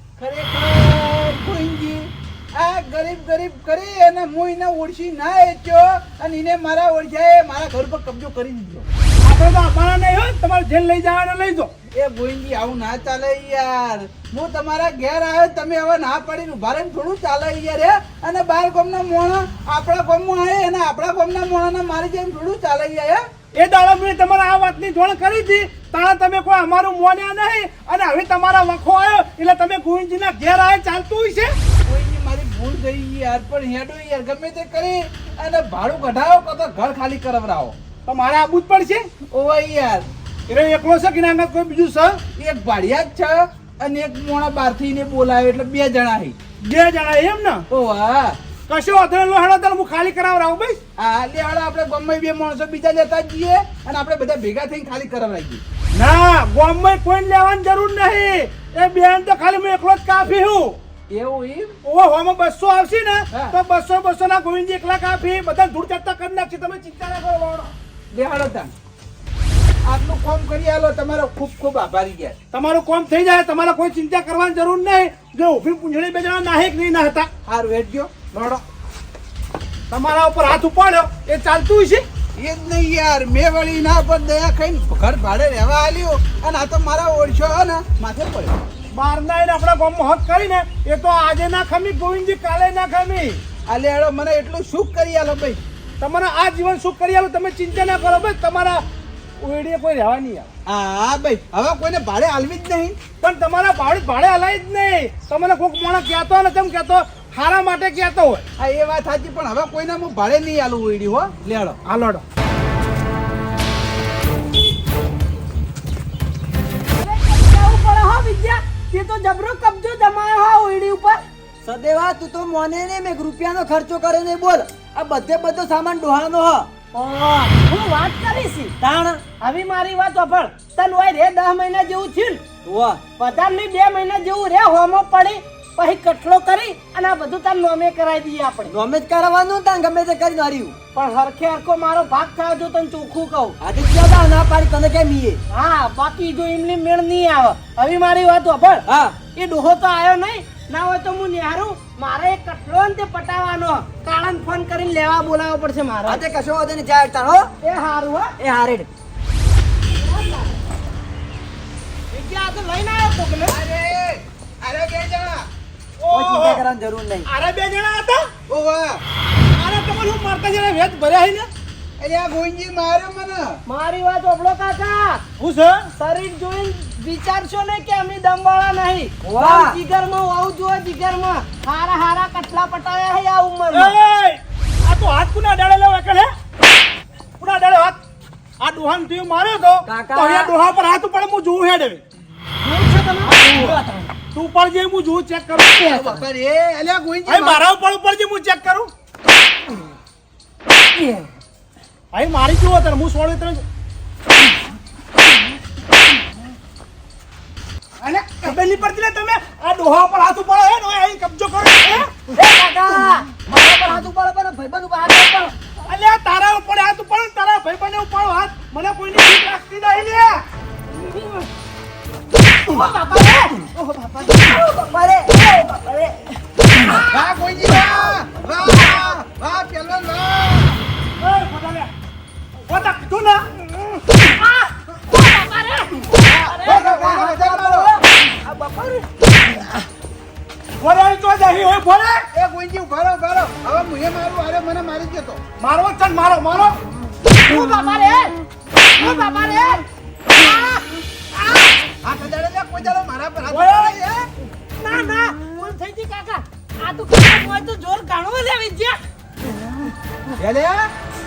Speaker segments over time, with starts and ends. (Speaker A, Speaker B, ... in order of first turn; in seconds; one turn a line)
Speaker A: 0.2-8.9
Speaker B: 9.2-11.7
Speaker A: 11.9-23.2
Speaker B: 23.5-31.5
Speaker A: 31.9-37.8
Speaker B: 38.0-39.1
Speaker A: 39.3-40.1
Speaker B: 40.5-42.2
Speaker A: 42.4-46.4
Speaker B: 46.7-47.6
Speaker A: 47.7-48.4
Speaker B: 48.7-50.8
Speaker A: 51.0-55.6
Speaker B: 56.0-60.8
Speaker A: 61.1-61.8
Speaker B: 61.8-67.7
Speaker A: 68.1-68.7
Speaker A: 69.8-72.3
Speaker B: 72.5-77.3
Speaker A: 77.5-78.1
Speaker B: 78.3-78.6
Speaker B: 79.9-82.0
Speaker A: 82.4-88.6
Speaker B: 88.9-93.4
Speaker A: 93.7-95.6
Speaker B: 96.0-98.8
Speaker B: 99.4-100.5
Speaker A: 100.7-103.0
Speaker B: 103.2-108.4
Speaker A: 108.6-111.8
Speaker B: 111.8-112.2
Speaker C: 116.9-121.2
Speaker D: 121.6-126.7
Speaker C: 126.9-128.7
Speaker D: 128.8-129.2
Speaker C: 129.4-132.4
Speaker D: 132.6-133.0
Speaker C: 133.2-138.7
Speaker D: 138.7-140.8
Speaker C: 140.9-143.6
Speaker D: 143.6-145.4
Speaker C: 145.5-156.2
Speaker D: 148.9-149.2
Speaker D: 156.1-157.5
Speaker C: 157.6-158.3
Speaker D: 158.4-158.9
Speaker C: 159.9-160.5
Speaker C: 162.1-163.6
Speaker A: 163.5-165.5
Speaker B: 166.0-166.6
Speaker D: 166.1-167.3
Speaker B: 167.2-168.2
Speaker A: 168.5-169.0
Speaker B: 169.6-171.5
Speaker A: 172.0-173.6
Speaker C: 173.7-175.2
Speaker B: 175.4-175.9
Speaker C: 176.0-183.9
Speaker D: 179.2-179.8
Speaker B: 183.7-186.3
Speaker B: 187.4-188.0
Speaker B: 188.6-192.0
Speaker D: 189.8-190.5
Speaker C: 192.6-194.1
Speaker A: 193.3-193.8
Speaker B: 193.4-193.8
Speaker B: 194.3-196.0
Speaker A: 195.8-197.6
Speaker B: 197.3-198.9
Speaker B: 202.1-203.6
Speaker B: 208.0-212.1
Speaker D: 212.3-215.6
Speaker B: 215.9-220.4
Speaker C: 220.9-221.5
Speaker C: 222.7-223.7
Speaker D: 224.2-227.0
Speaker A: 227.0-230.8
Speaker B: 231.2-231.9
Speaker B: 232.7-233.5
Speaker C: 234.2-237.0
Speaker B: 236.5-237.5
Speaker D: 236.6-239.0
Speaker A: 236.6-237.9
Speaker B: 240.8-242.2
Speaker A: 242.3-245.4
Speaker B: 245.6-246.8
Speaker C: 247.4-248.3
Speaker C: 248.9-251.7
Speaker A: 252.0-254.3
Speaker B: 253.5-254.0
Speaker C: 254.8-259.0
Speaker A: 260.4-260.9